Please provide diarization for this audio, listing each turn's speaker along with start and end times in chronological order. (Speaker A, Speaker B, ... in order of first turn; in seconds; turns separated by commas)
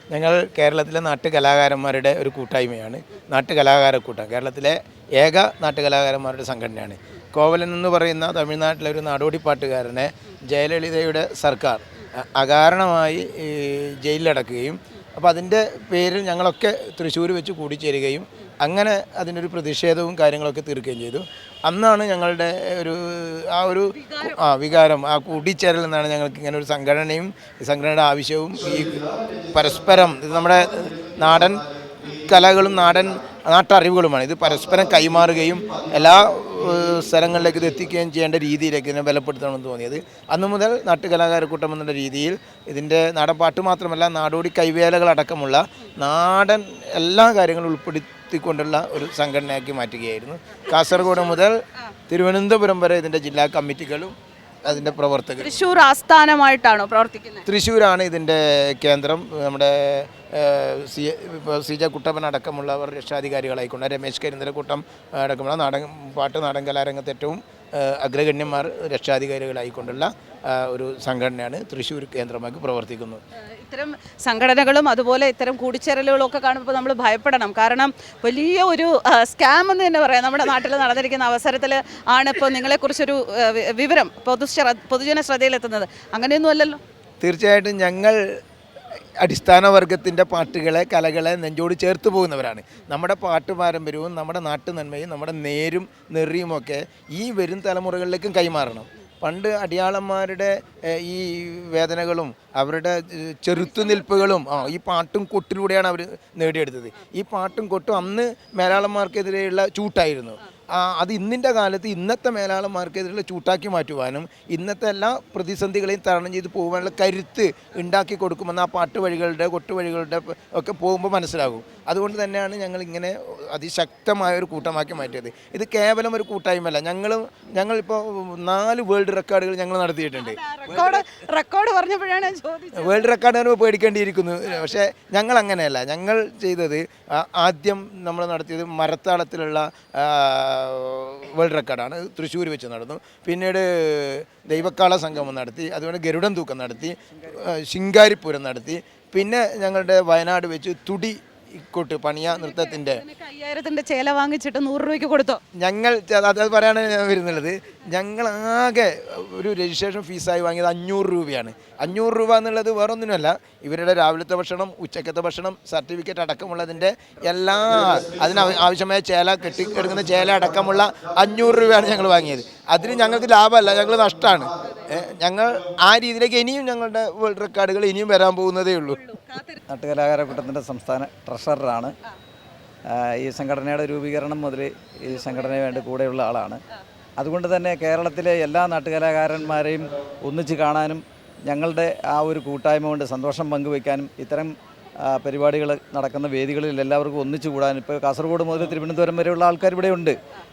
Speaker A: 0.1-51.5, Speaker B: 24.0-24.3, Speaker A: 52.1-55.6, Speaker B: 55.4-57.5, Speaker A: 57.5-73.2, Speaker B: 73.5-86.8, Speaker A: 87.2-88.2, Speaker A: 89.2-131.0, Speaker B: 103.6-104.6, Speaker B: 130.2-133.1, Speaker A: 132.8-153.0, Speaker B: 152.4-155.4, Speaker A: 155.6-179.1, Speaker B: 179.1-179.6, Speaker C: 179.7-181.9, Speaker C: 182.9-186.6, Speaker C: 187.2-194.5, Speaker C: 195.1-200.2